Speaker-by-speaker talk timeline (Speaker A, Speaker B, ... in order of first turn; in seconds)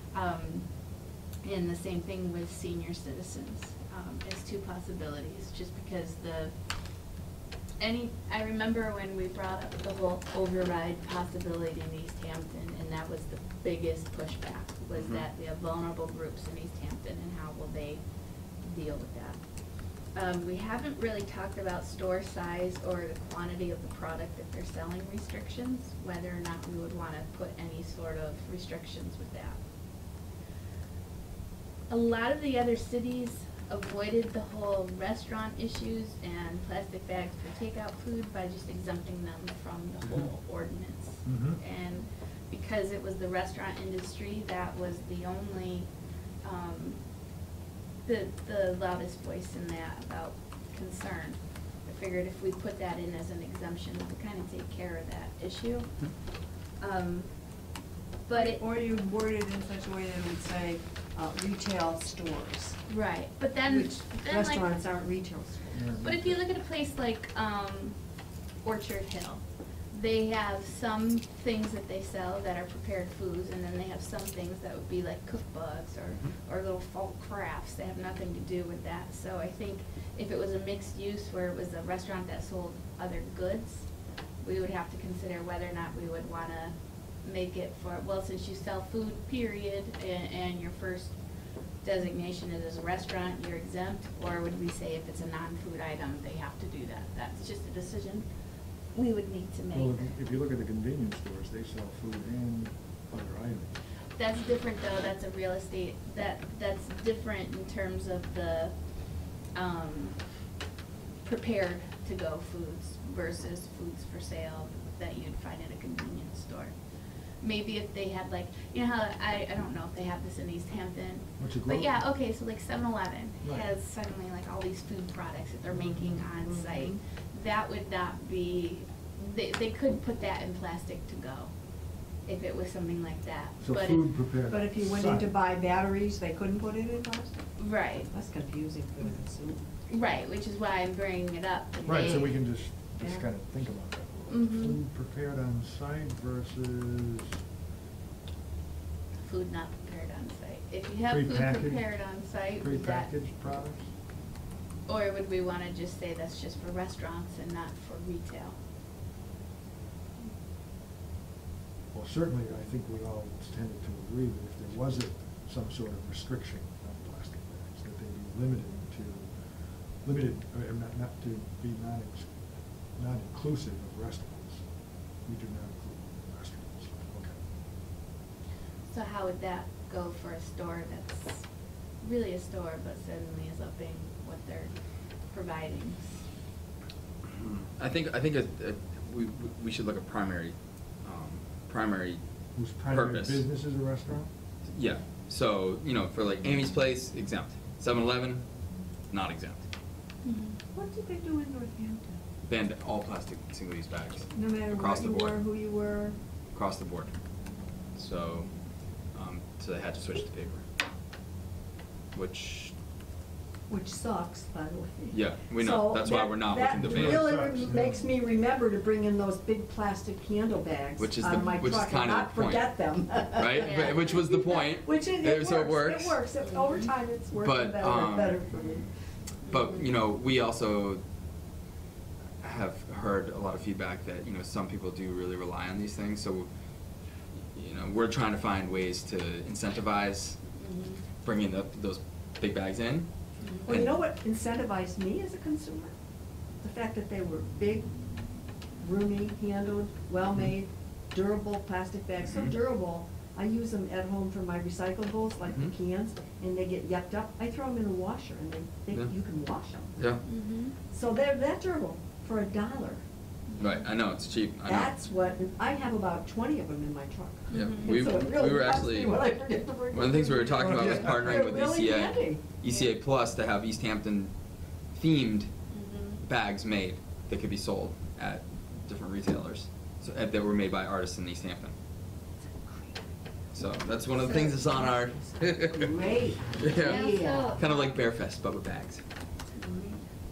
Speaker A: 0.1-0.7, 1.4-6.5, 7.8-18.0, 18.6-19.4, 20.1-29.6, 31.9-45.9, 46.4-47.0, 48.0-55.9, 56.8-57.3, 58.3-58.6, 62.9-64.7, 66.0-68.0, 68.6-83.9, 84.4-91.2, 91.8-98.2, 98.9-100.1, 104.2-108.8, 109.4-110.2, 111.2-116.7, 117.4-131.5, 132.2-134.0, 137.6-138.1, 139.9-142.4, 144.3-144.8, 149.2-153.1, 154.9-158.6, 178.9-181.4, 182.0-184.7, 185.3-186.2, 200.2-200.6, 223.6-224.2, 240.6-241.0, 243.4-243.8, 260.2-260.7, 263.5-263.8, 267.5-268.1, 272.6-272.9, 275.7-276.2, 286.8-288.0, 289.6-290.0
Speaker B: 14.9-15.2, 187.3-192.2, 192.8-193.4, 194.7-198.4, 199.1-199.6, 202.5-205.4, 206.5-207.1, 207.9-208.5, 209.1-210.6, 212.1-212.7, 215.1-217.4, 221.0-226.2, 227.3-228.6, 229.5-231.0, 232.4-236.5, 237.3-240.4, 241.2-243.1, 243.7-244.0, 252.2-252.5, 260.0-260.2, 263.6-264.9, 267.5-274.3, 274.9-275.5, 276.2-281.7, 283.5-289.0
Speaker C: 41.2-41.6, 65.7-66.3, 99.7-103.7, 121.4-122.0, 123.4-123.7, 133.6-135.3, 141.8-147.3, 151.1-153.9, 161.9-169.3, 170.0-172.3, 172.9-174.6, 175.2-177.4, 192.5-194.3, 216.8-218.0, 270.6-271.4
Speaker D: 58.3-62.8, 63.6-65.9, 134.5-137.5, 138.0-139.6, 141.8-142.1, 200.7-202.2, 204.3-206.2, 213.7-228.9, 243.6-245.9, 246.6-247.9, 248.8-259.9, 260.9-263.0, 264.6-272.4, 282.6-282.9, 284.2-287.6